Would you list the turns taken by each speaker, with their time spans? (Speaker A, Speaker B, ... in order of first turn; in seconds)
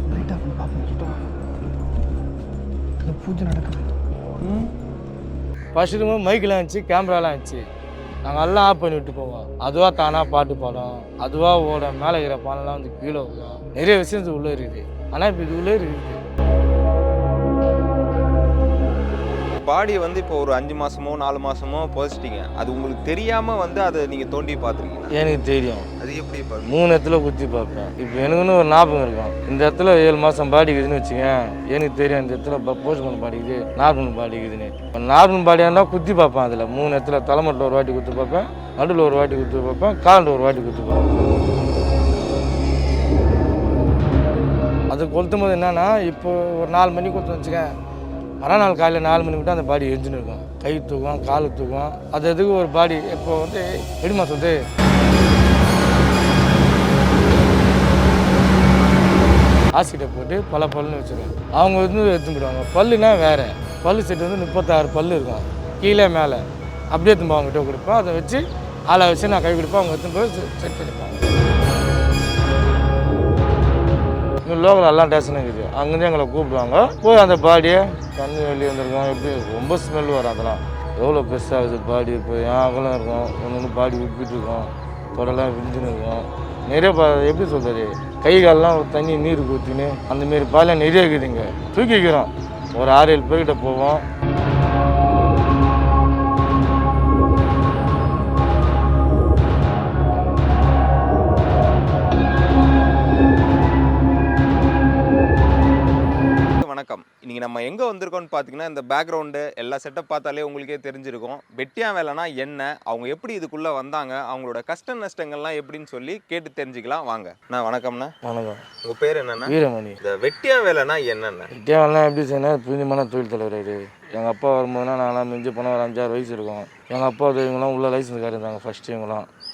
Speaker A: 0.1-1.3, 3.0-3.9
Speaker B: 5.8-7.7, 8.3-16.2, 25.1-25.9, 26.7-41.4, 44.9-47.7, 48.4-54.6, 59.8-71.2, 74.4-94.0, 118.2-118.6, 119.5-120.0, 121.5-129.3
Speaker C: 19.6-25.1, 26.0-26.7, 106.6-118.1, 118.8-121.5